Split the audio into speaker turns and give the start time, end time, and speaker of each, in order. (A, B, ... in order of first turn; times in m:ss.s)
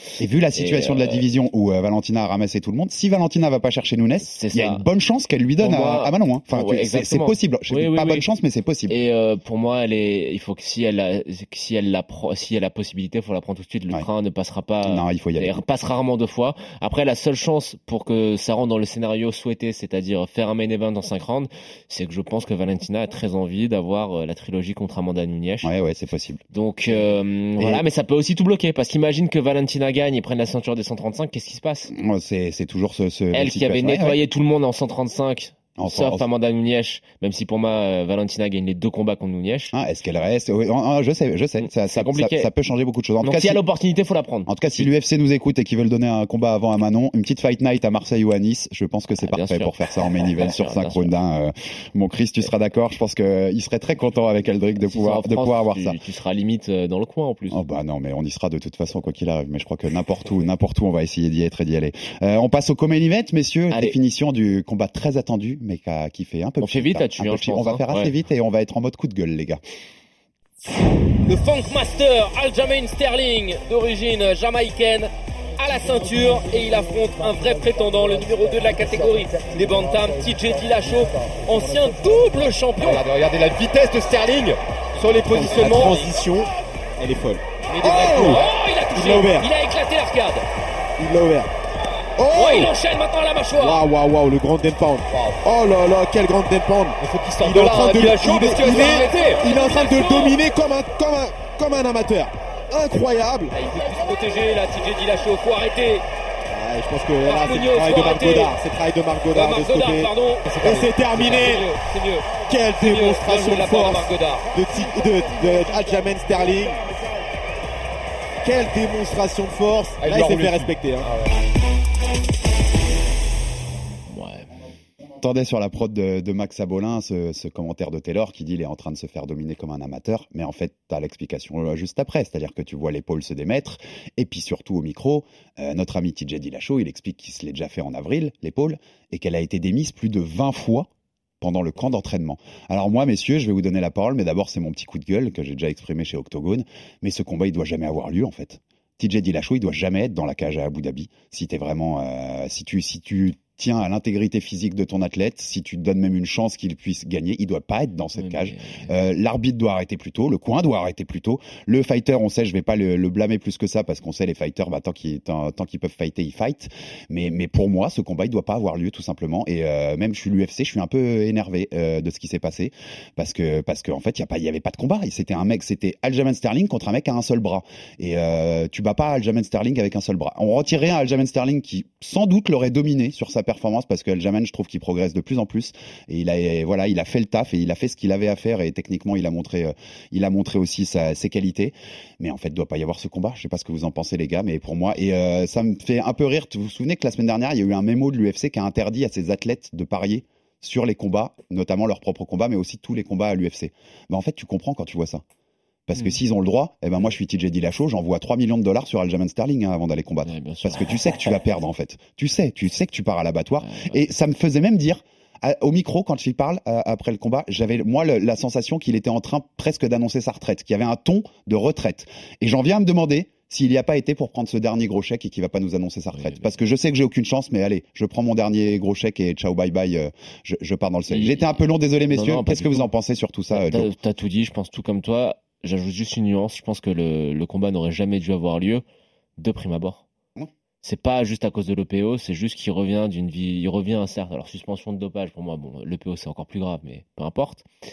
0:00.2-0:08.9 A
0:00.5-0:01.2 B
0:04.2-0:04.8 B
0:05.6-0:08.2 B
0:08.9-0:25.7 B
0:14.8-0:15.6 A
0:25.6-0:26.4 A
0:26.5-0:31.9 B
0:27.6-0:27.8 A
0:31.9-0:34.2 A
0:33.3-0:39.7 B
0:35.8-0:36.2 A
0:39.7-0:43.6 A
0:41.6-0:42.5 B
0:43.2-0:44.9 B
0:44.5-0:56.0 A
0:49.2-0:51.1 B
0:54.8-0:57.6 B
0:57.5-1:09.6 A
1:03.7-1:04.0 B
1:06.6-1:08.1 B
1:11.2-1:23.1 C
1:22.8-1:26.0 D
1:25.0-1:26.1 C
1:25.2-1:28.4 E
1:27.7-1:28.5 D
1:27.8-1:30.4 C
1:28.9-1:29.5 E
1:31.0-1:31.5 E
1:32.2-1:32.7 E
1:32.3-1:33.8 C
1:33.6-1:43.5 E
1:35.1-1:35.4 D
1:37.0-1:39.4 D
1:38.5-1:40.4 C
1:43.5-1:46.0 C
1:46.5-1:50.1 E
1:47.2-1:48.6 C
1:49.3-1:54.4 C
1:50.4-1:51.6 D
1:50.6-1:51.6 E
1:52.4-1:56.8 E
1:52.8-1:53.9 D
1:54.8-1:56.0 D
1:58.4-2:01.1 E
2:00.0-2:01.4 D
2:04.1-2:04.5 B
2:05.2-2:20.9 A
2:21.4-3:25.2 A
2:38.2-2:38.9 B
3:25.9-3:53.9 A
3:30.2-3:31.3 B
3:33.6-3:34.0 B
3:46.1-3:46.5 B
3:51.1-3:52.9 B
3:53.5-3:58.8 B
3:59.4-4:00.0 B
4:00.8-4:07.6 B